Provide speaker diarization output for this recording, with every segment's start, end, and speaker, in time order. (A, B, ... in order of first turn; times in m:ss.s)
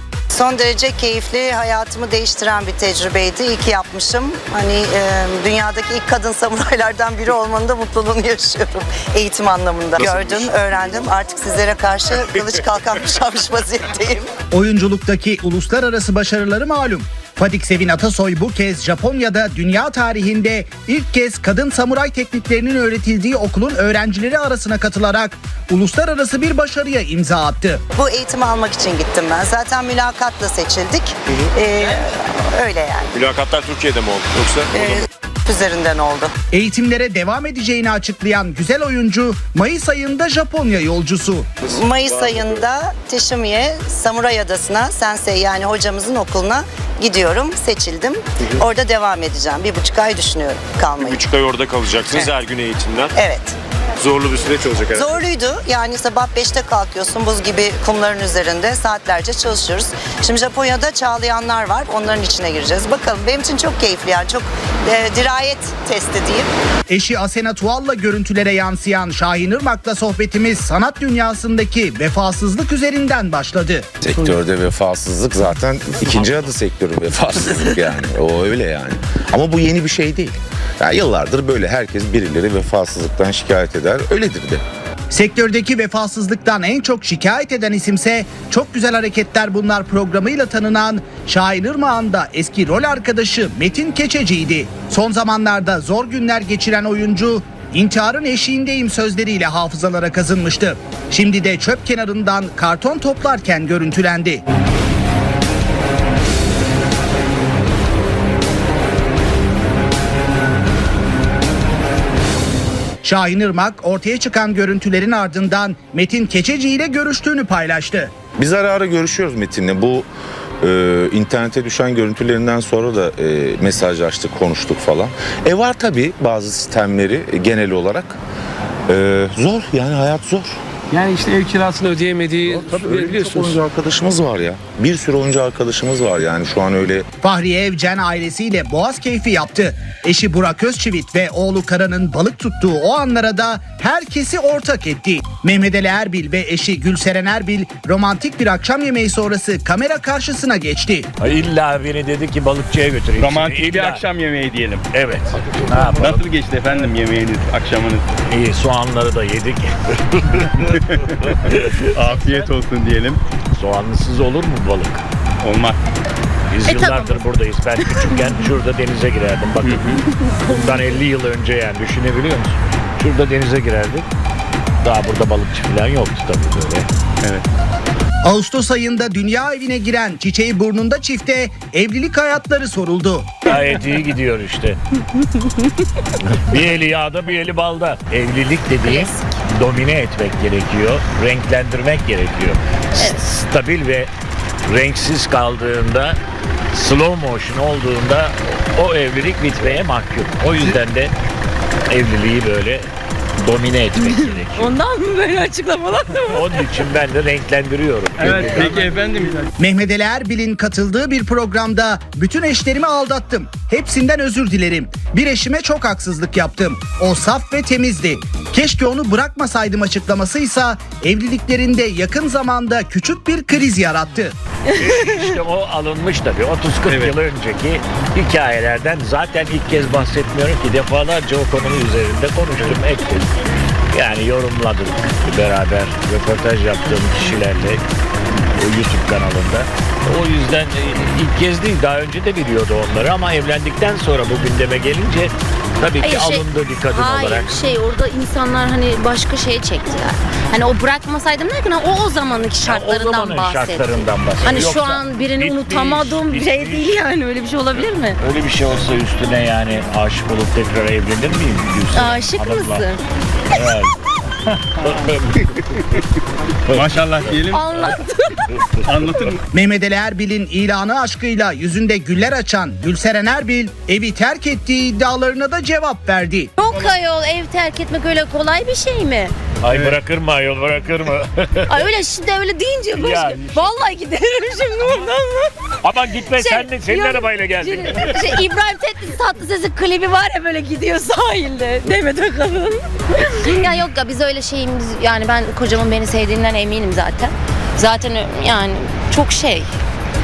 0:00.3-0:14.3 A
0:14.5-0:27.8 B
0:28.0-0:33.1 A
0:33.2-0:34.6 C
0:34.7-0:36.3 A
0:36.5-0:41.5 B
0:41.6-0:51.2 A
0:51.1-0:53.0 C
0:52.0-0:52.4 A
0:53.2-0:53.6 A
0:54.0-0:55.1 C
0:54.9-1:06.5 A
1:06.9-1:13.9 B
1:14.0-1:24.6 D
1:25.1-1:44.4 B
1:53.0-1:58.1 B
1:58.4-2:00.1 D
2:00.6-2:08.2 D
2:08.9-2:10.6 D
2:10.9-2:13.5 E
2:12.7-2:17.0 D
2:17.2-2:31.1 B
2:31.2-2:34.0 F
2:33.2-2:34.8 G
2:34.9-2:36.3 F
2:35.8-2:38.1 G
2:38.3-2:40.7 F
2:41.3-2:42.5 F
2:41.9-2:43.2 G
2:43.5-2:45.0 F
2:45.4-2:45.8 G
2:46.5-2:54.0 F
2:46.6-2:47.2 H
2:49.6-2:50.0 G
2:54.8-2:56.9 F
2:58.2-3:03.3 B
3:03.4-3:04.8 F
3:06.2-3:14.1 F
3:08.8-3:09.1 H
3:14.7-3:16.2 F
3:16.7-3:21.1 F
3:21.9-3:22.9 F
3:23.4-3:24.7 F
3:24.1-3:26.5 H
3:26.3-3:28.9 F
3:28.2-3:29.5 G
3:29.6-3:44.3 B
3:44.7-3:53.3 F
3:53.9-3:57.8 F
3:58.6-4:07.7 F
4:06.0-4:18.2 H
4:12.6-4:17.1 F
4:17.8-4:22.9 F
4:21.9-4:23.0 H
4:23.5-4:24.0 F
4:24.6-4:25.4 F
4:26.7-4:27.6 G
4:27.5-4:28.5 H
4:28.8-4:29.4 G
4:29.5-4:36.5 B
4:36.6-4:39.3 H
4:39.6-4:41.9 F
4:41.7-4:45.5 H
4:43.0-4:43.8 F
4:45.8-4:48.3 F
4:46.3-4:59.7 H